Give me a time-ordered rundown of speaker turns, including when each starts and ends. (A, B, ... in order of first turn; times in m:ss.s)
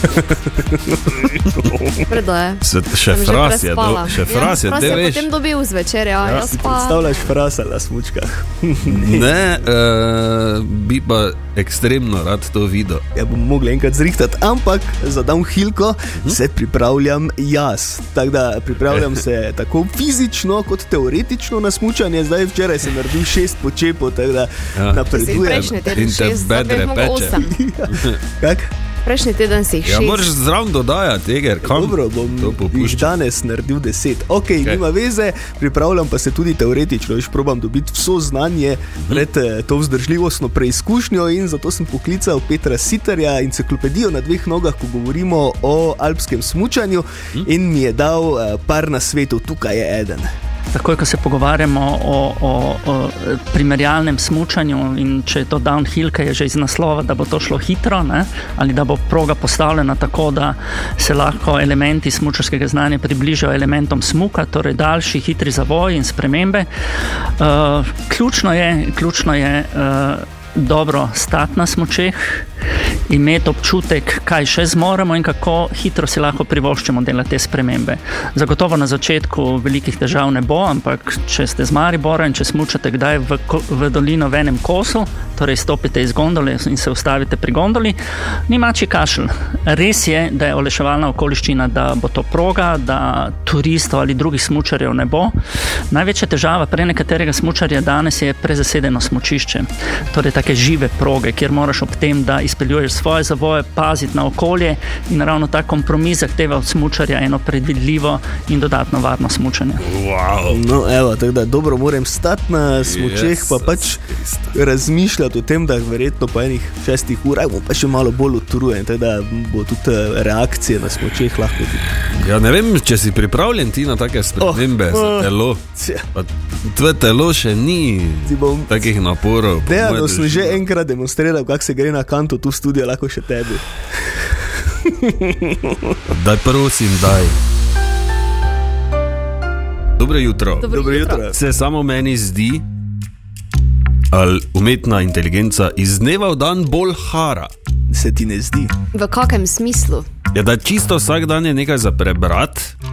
0:00.1-0:02.0 A
0:02.1-0:07.0 B
0:02.6-0:05.3 C
0:06.2-0:06.5 C
0:06.3-0:09.3 A
0:08.8-0:13.0 C
0:13.1-0:25.8 A
0:24.8-0:27.4 C
0:25.1-0:27.5 B
0:27.4-0:28.7 A
0:27.9-0:28.2 C
0:29.0-0:30.3 B
0:29.8-0:33.1 C
0:31.6-0:50.3 A
0:50.7-1:06.7 D
1:07.4-1:12.4 D
1:13.1-1:35.3 D
1:35.9-1:49.8 D
1:49.8-1:50.6 C
1:50.5-1:54.0 A
1:52.8-1:54.5 C
1:54.5-2:01.8 A
2:02.1-2:10.6 C
2:04.4-2:06.0 A
2:08.2-2:08.9 A
2:09.6-2:13.6 A
2:14.8-2:16.0 A
2:16.1-2:17.4 C
2:20.0-2:20.7 C
2:20.6-2:21.2 B
2:20.7-2:21.4 A
2:21.3-2:22.6 C
2:24.1-2:27.5 C
2:27.9-2:28.7 A
2:28.9-2:30.1 B
2:30.3-2:32.7 C